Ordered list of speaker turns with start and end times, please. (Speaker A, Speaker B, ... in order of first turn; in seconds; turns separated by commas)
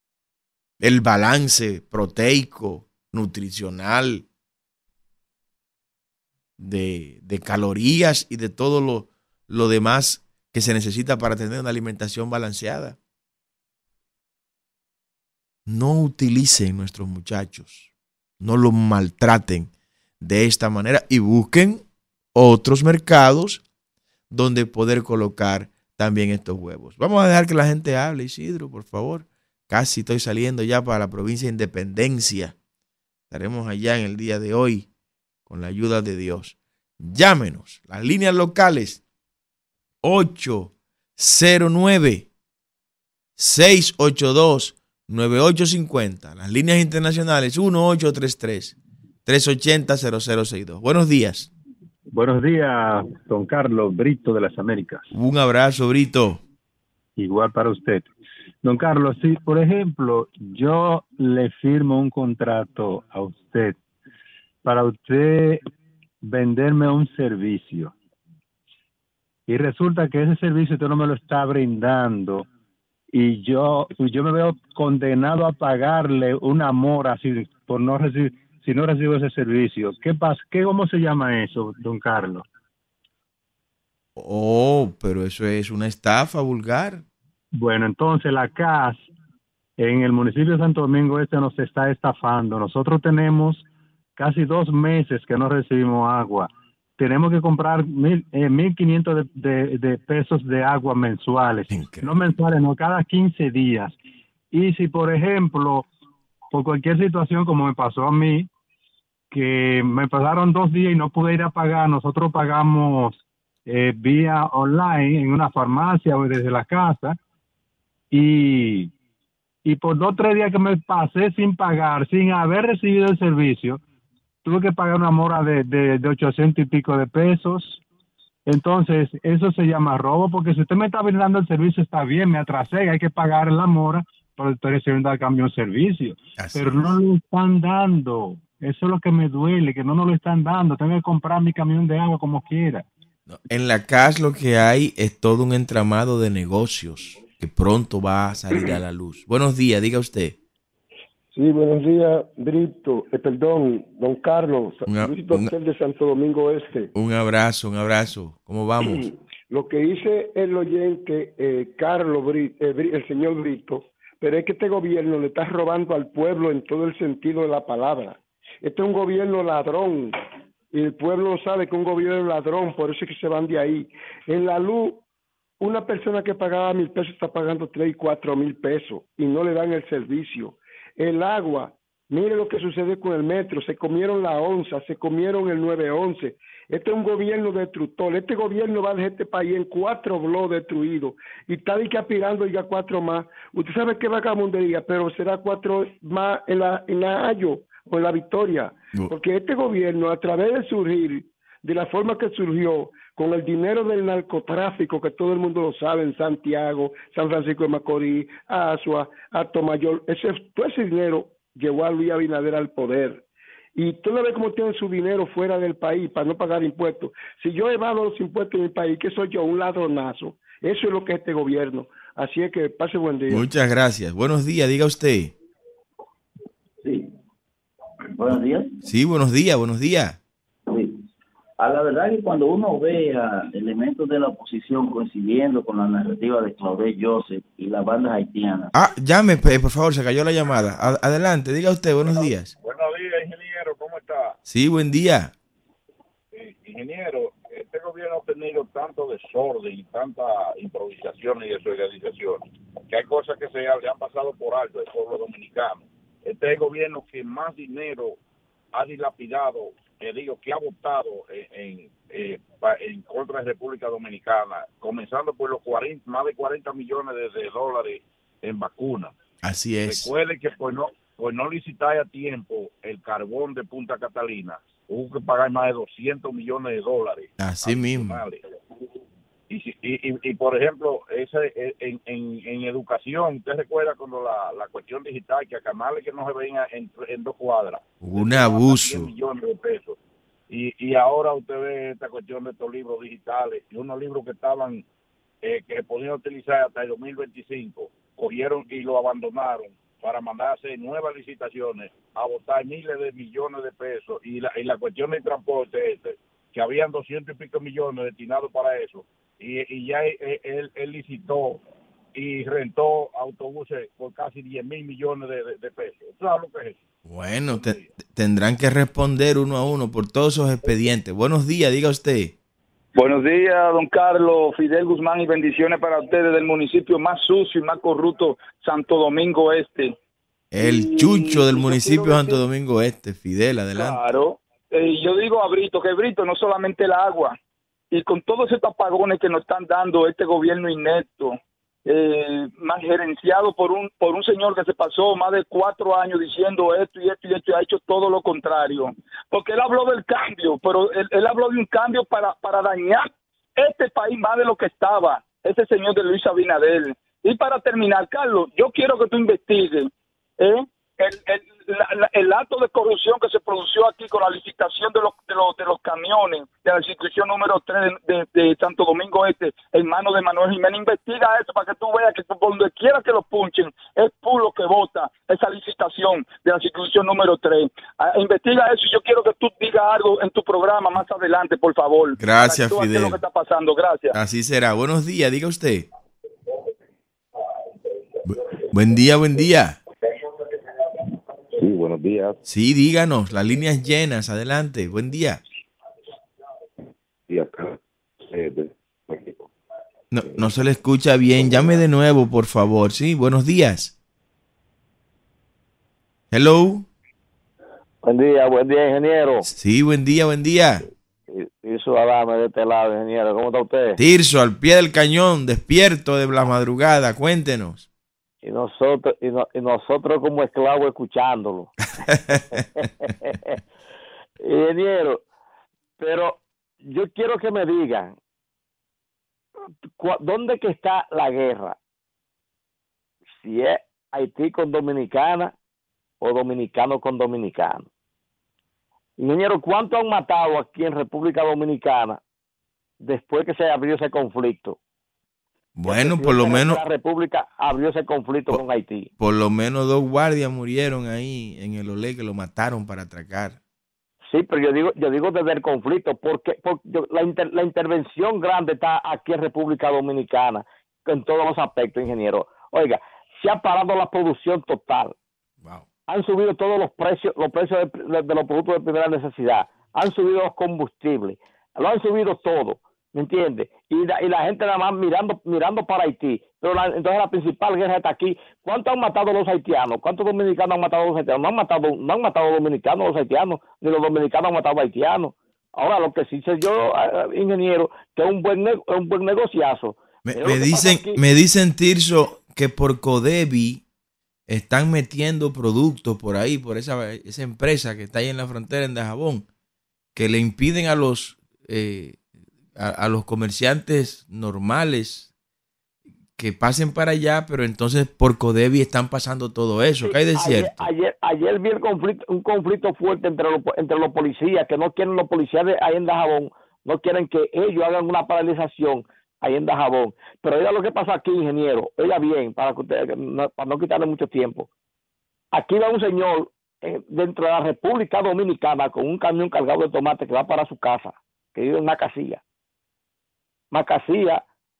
Speaker A: 0.8-4.2, Speaker A: 6.6-13.0, Speaker A: 15.7-21.8, Speaker A: 22.3-23.6, Speaker A: 24.3-32.5, Speaker A: 33.3-34.9, Speaker A: 35.5-39.0, Speaker A: 40.0-42.3, Speaker A: 43.4-51.5, Speaker B: 52.1-55.1, Speaker A: 55.1-56.4, Speaker B: 57.2-58.1, Speaker B: 58.6-63.8, Speaker B: 64.6-65.7, Speaker B: 66.2-67.9, Speaker B: 69.5-72.5, Speaker B: 73.1-82.5, Speaker A: 84.2-87.0, Speaker B: 87.5-89.0, Speaker B: 89.8-93.7, Speaker B: 94.2-104.0, Speaker A: 101.7-102.3, Speaker B: 104.5-105.9, Speaker B: 106.5-108.5, Speaker B: 109.3-117.2, Speaker B: 118.1-118.9, Speaker B: 119.6-123.8, Speaker B: 124.4-127.8, Speaker B: 128.5-142.8, Speaker A: 136.4-136.9, Speaker A: 143.3-150.4, Speaker C: 151.3-156.9, Speaker A: 154.8-155.5, Speaker A: 156.9-159.1, Speaker C: 158.8-170.1, Speaker C: 170.7-175.0, Speaker C: 175.6-213.2, Speaker C: 213.8-223.4, Speaker A: 223.3-225.3, Speaker D: 226.8-227.1, Speaker D: 228.2-228.8, Speaker A: 228.8-230.2, Speaker D: 230.7-231.0, Speaker D: 231.6-238.7, Speaker A: 238.7-242.5, Speaker E: 242.2-244.4, Speaker A: 244.4-245.3, Speaker E: 246.3-258.2, Speaker E: 258.7-269.1, Speaker A: 269.4-270.1, Speaker E: 269.9-278.4, Speaker A: 277.4-278.2, Speaker E: 279.5-290.0, Speaker A: 288.0-289.1, Speaker E: 290.5-294.9, Speaker E: 295.4-311.6, Speaker E: 312.1-316.8, Speaker A: 317.1-322.4, Speaker E: 317.6-317.9, Speaker F: 322.9-329.9, Speaker A: 330.5-334.1, Speaker F: 330.6-332.4, Speaker F: 333.8-337.3, Speaker F: 337.9-341.3, Speaker F: 341.9-384.1, Speaker A: 382.2-383.2, Speaker A: 384.1-385.9, Speaker A: 388.2-389.8, Speaker G: 391.6-392.3, Speaker A: 392.4-395.4, Speaker G: 397.3-397.8, Speaker G: 398.3-399.3, Speaker A: 400.1-403.9, Speaker A: 406.3-406.9, Speaker H: 408.0-409.5, Speaker A: 409.4-410.8, Speaker H: 411.3-414.0, Speaker A: 414.0-417.9, Speaker H: 418.4-421.8, Speaker A: 422.1-422.4, Speaker H: 422.5-423.6, Speaker H: 424.4-425.2, Speaker H: 426.0-428.1, Speaker H: 430.0-431.8, Speaker H: 433.4-435.5, Speaker H: 436.2-437.9, Speaker H: 439.2-442.2, Speaker H: 443.0-444.8, Speaker A: 445.8-446.8, Speaker H: 445.8-449.1, Speaker A: 449.2-453.6, Speaker H: 454.3-465.1, Speaker H: 466.1-491.2, Speaker A: 490.2-493.8, Speaker A: 494.5-499.4, Speaker A: 500.1-502.2, Speaker A: 502.8-505.3, Speaker A: 506.4-510.9, Speaker H: 510.0-524.7, Speaker H: 525.5-532.4, Speaker H: 533.7-534.4